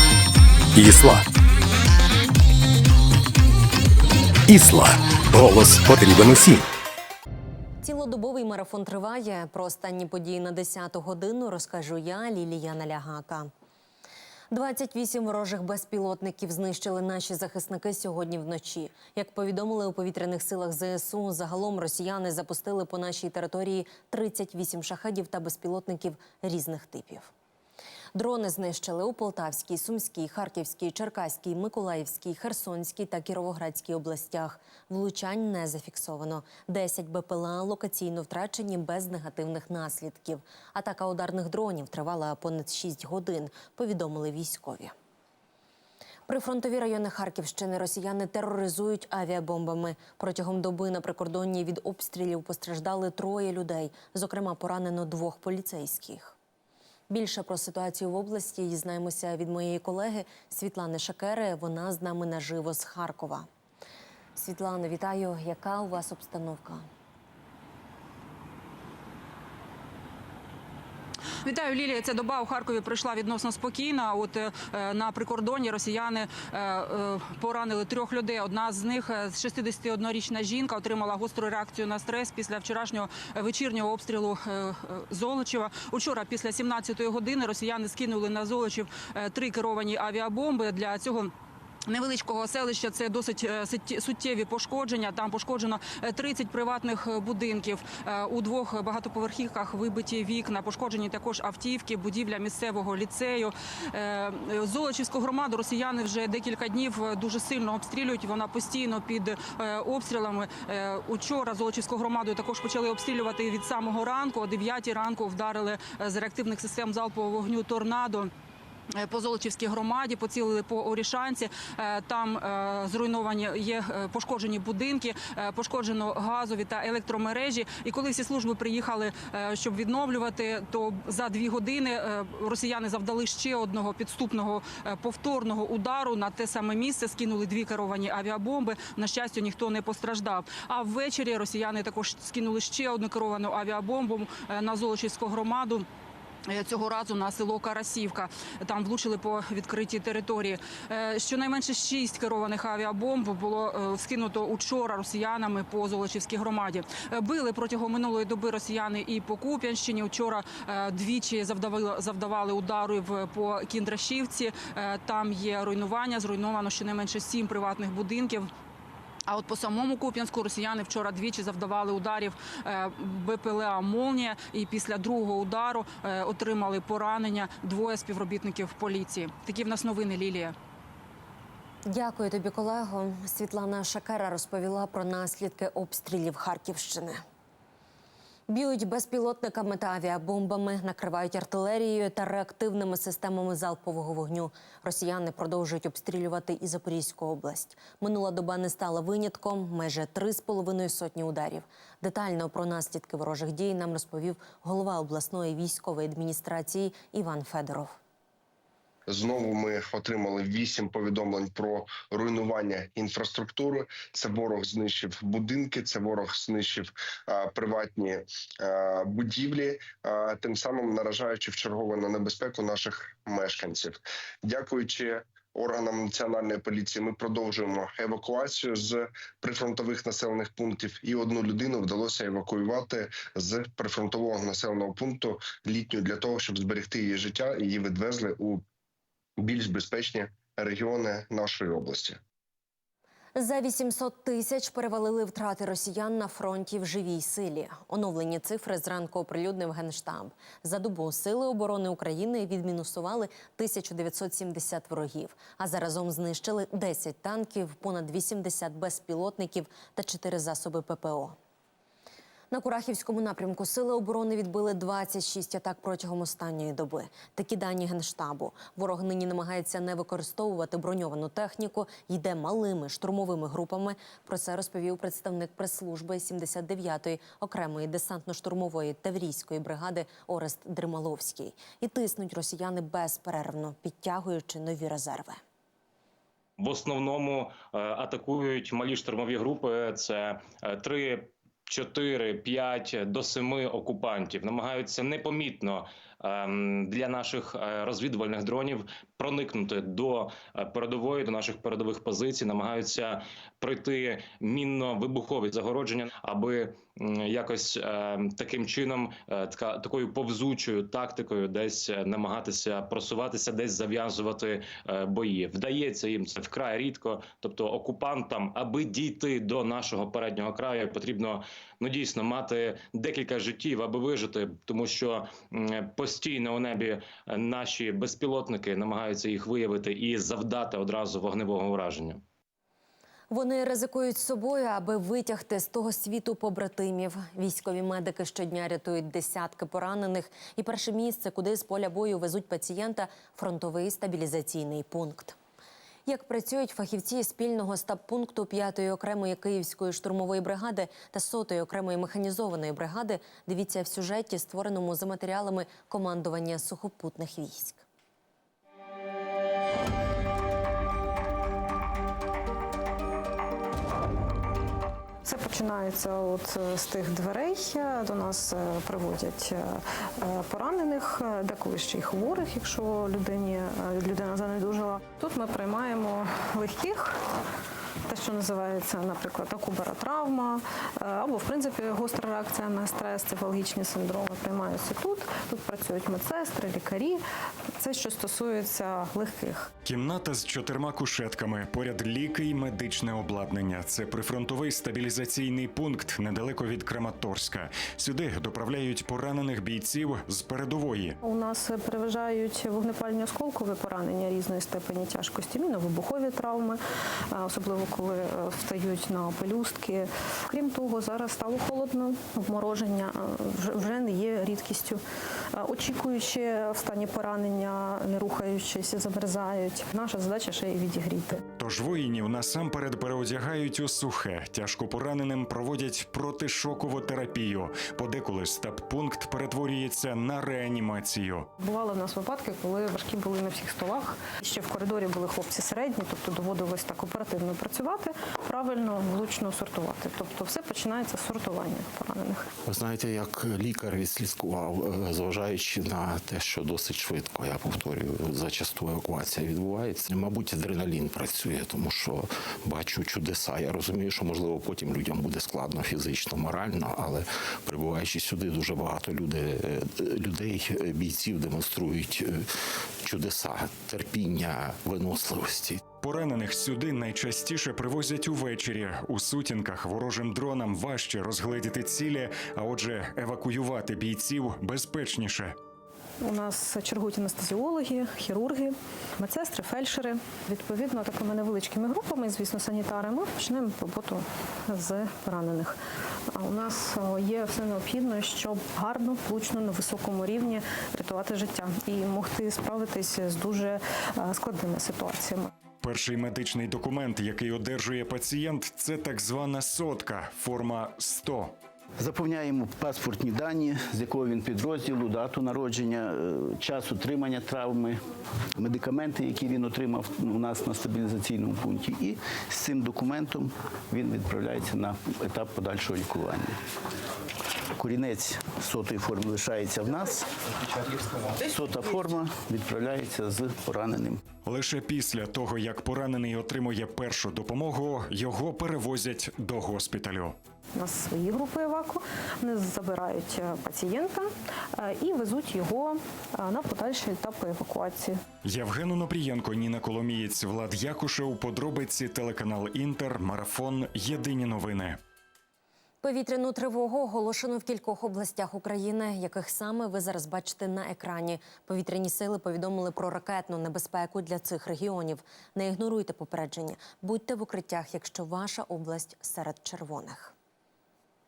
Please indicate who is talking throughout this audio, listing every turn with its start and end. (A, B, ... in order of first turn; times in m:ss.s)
0:00.8-0:01.2 A
0:04.5-0:06.6 A
0:07.8-0:13.5 B
0:14.5-0:27.3 B
0:28.2-0:44.9 B
0:46.3-0:56.4 B
0:57.1-1:03.5 B
1:04.4-1:06.8 B
1:11.4-1:31.3 C
1:31.9-1:58.3 C
1:59.0-2:25.8 C
2:26.5-2:48.5 C
2:49.3-3:00.5 C
3:01.9-3:07.2 B
3:08.5-3:28.0 B
3:29.1-3:58.6 D
3:59.4-4:02.2 D
4:03.4-4:21.4 B
4:22.5-4:45.4 B
4:46.6-5:32.2 E
5:33.3-5:45.4 B
5:46.1-5:57.9 B
6:05.2-6:17.2 F
6:18.1-6:27.2 F
6:27.8-6:29.7 F
6:29.8-6:41.2 G
6:41.2-6:46.8 F
6:47.3-6:55.0 F
6:55.6-7:01.4 F
7:01.6-7:11.5 G
7:11.6-7:22.4 F
7:22.7-7:42.5 H
7:43.0-7:45.9 H
7:46.0-7:55.6 G
7:56.2-8:05.8 F
8:06.3-8:15.5 F
8:15.8-8:21.5 G
8:22.0-8:28.0 I
8:28.6-8:36.6 I
8:37.8-8:40.2 I
8:41.4-8:44.2 I
8:44.4-8:50.4 G
8:50.8-8:58.2 F
8:58.4-9:05.0 G
9:06.0-9:20.3 B